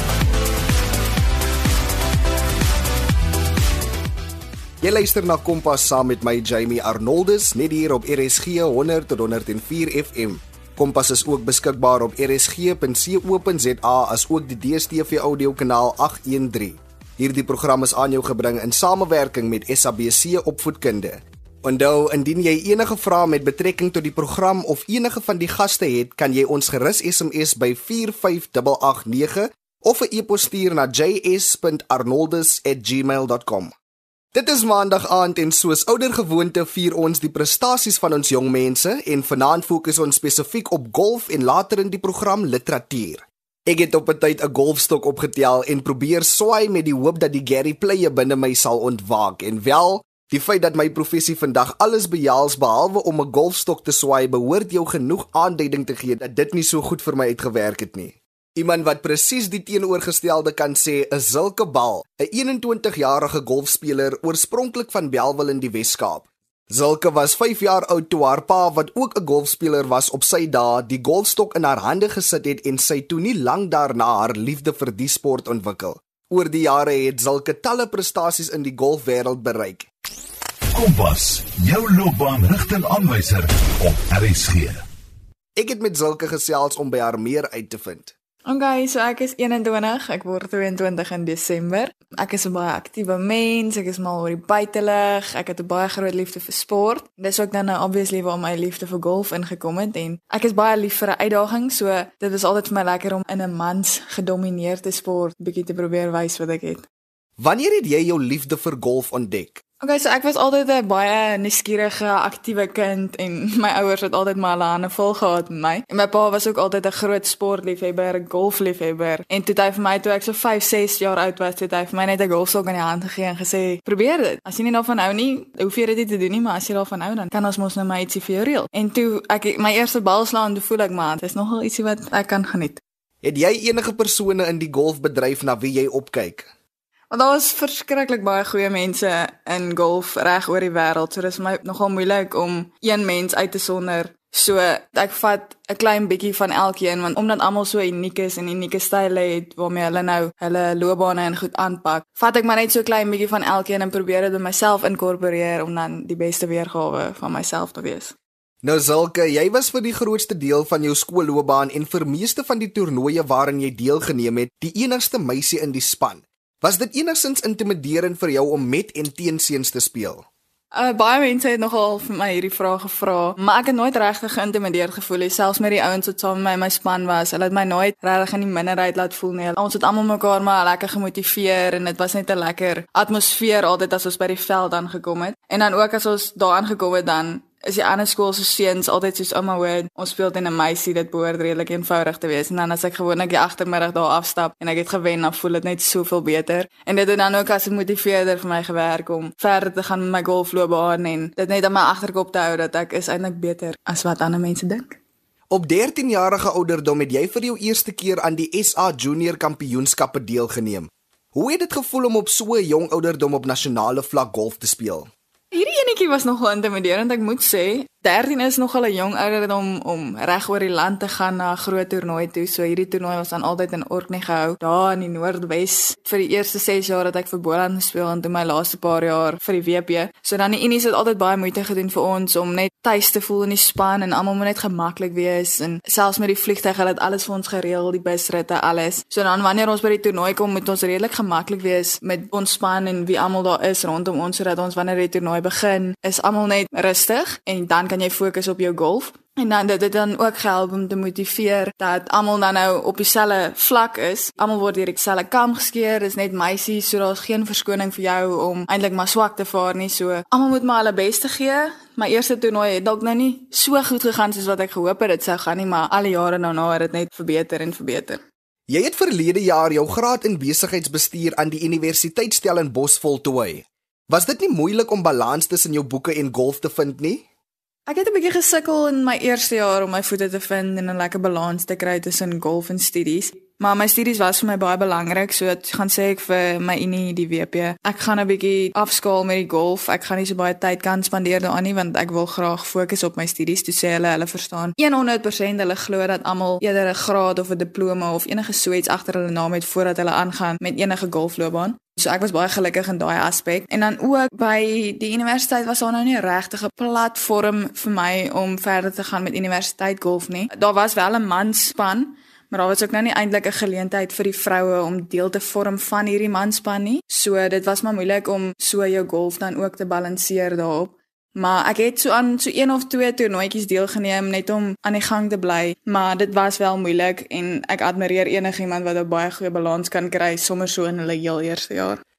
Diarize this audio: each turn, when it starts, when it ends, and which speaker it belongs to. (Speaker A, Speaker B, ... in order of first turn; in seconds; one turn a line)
Speaker A: 4.8-33.7
Speaker A: 34.3-79.9
Speaker B: 80.7-84.8
Speaker A: 85.6-88.1
Speaker C: 88.5-106.8
Speaker A: 107.4-109.6
Speaker C: 109.8-132.8
Speaker A: 133.2-136.5
Speaker C: 137.1-158.1
Speaker A: 158.6-170.3
Speaker C: 170.7-205.0
Speaker A: 205.5-215.1
Speaker C: 215.5-268.2
Speaker A: 268.7-277.2
Speaker C: 277.9-332.0